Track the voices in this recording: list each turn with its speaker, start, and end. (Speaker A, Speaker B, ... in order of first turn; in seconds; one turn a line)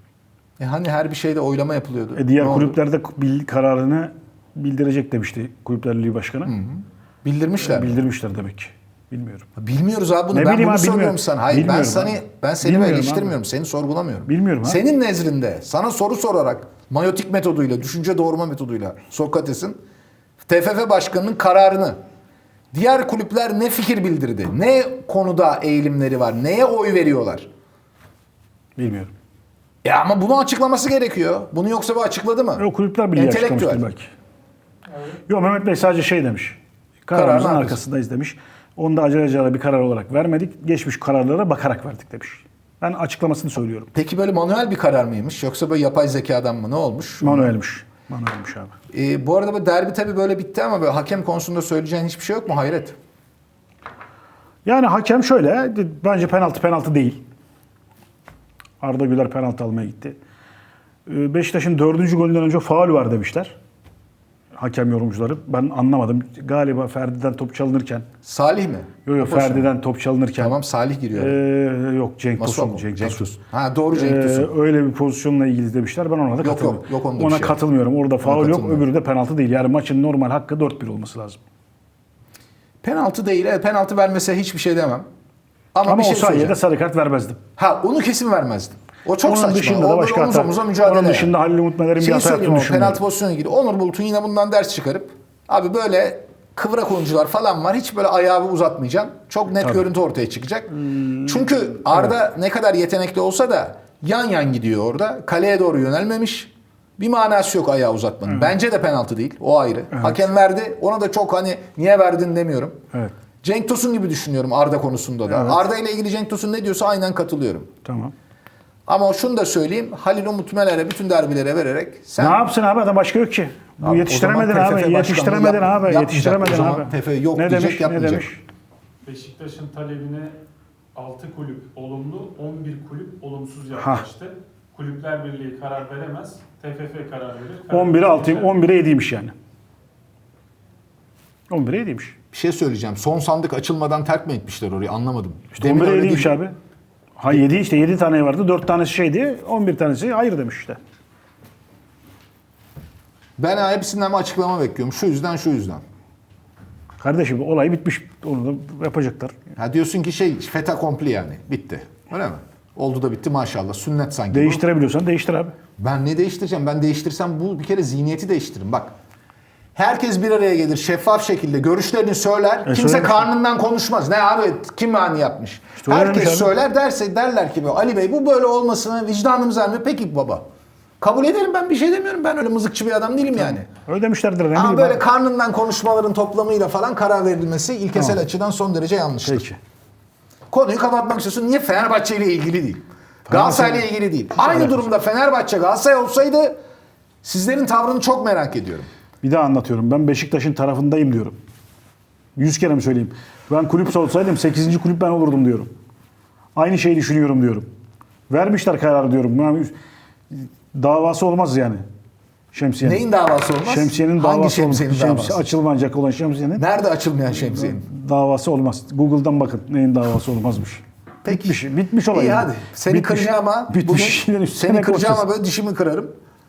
Speaker A: 0.6-2.8
Speaker B: 2.1-6.5
Speaker A: 6.5-8.0
Speaker B: 7.6-9.5
Speaker A: 9.6-19.8
Speaker B: 10.3-13.4
Speaker B: 14.3-14.8
Speaker A: 20.4-22.0
Speaker A: 22.7-27.5
Speaker B: 28.8-29.1
Speaker A: 29.8-33.9
Speaker B: 32.6-34.1
Speaker B: 35.3-43.9
Speaker A: 37.1-37.8
Speaker A: 43.9-47.5
Speaker B: 47.2-48.7
Speaker A: 48.9-53.0
Speaker B: 54.6-57.2
Speaker B: 58.8-60.2
Speaker B: 61.1-63.6
Speaker B: 64.6-68.1
Speaker A: 68.2-69.7
Speaker B: 69.1-70.5
Speaker A: 70.4-71.4
Speaker B: 71.1-73.3
Speaker A: 72.4-74.5
Speaker B: 73.9-81.4
Speaker A: 76.4-77.6
Speaker A: 78.2-78.9
Speaker A: 82.8-85.1
Speaker A: 85.7-86.6
Speaker B: 85.8-87.4
Speaker A: 87.6-91.3
Speaker B: 89.2-93.0
Speaker A: 92.0-112.8
Speaker B: 108.3-108.5
Speaker B: 109.9-110.2
Speaker A: 113.4-117.7
Speaker B: 115.3-115.6
Speaker B: 117.8-118.1
Speaker A: 118.9-122.4
Speaker B: 122.2-128.4
Speaker A: 123.8-128.3
Speaker C: 129.1-130.3
Speaker C: 130.9-138.5
Speaker B: 133.8-134.1
Speaker B: 137.7-139.3
Speaker B: 141.5-142.2
Speaker A: 142.3-146.4
Speaker B: 145.5-146.6
Speaker B: 147.2-150.8
Speaker A: 153.4-155.8
Speaker B: 157.0-159.3
Speaker A: 159.6-164.6
Speaker B: 164.3-165.6
Speaker A: 165.8-168.9
Speaker A: 169.8-180.4
Speaker B: 172.7-173.3
Speaker B: 175.8-176.5
Speaker A: 181.0-183.7
Speaker B: 183.4-185.0
Speaker A: 184.5-189.5
Speaker B: 189.2-189.6
Speaker A: 190.5-196.6
Speaker B: 193.3-194.9
Speaker A: 197.2-198.9
Speaker B: 199.2-201.4
Speaker B: 202.4-205.7
Speaker B: 206.6-207.7
Speaker B: 208.3-209.7
Speaker B: 210.3-211.8
Speaker B: 212.5-213.0
Speaker A: 212.8-215.5
Speaker B: 213.6-216.6
Speaker A: 216.6-217.8
Speaker B: 217.4-225.3
Speaker A: 221.2-226.1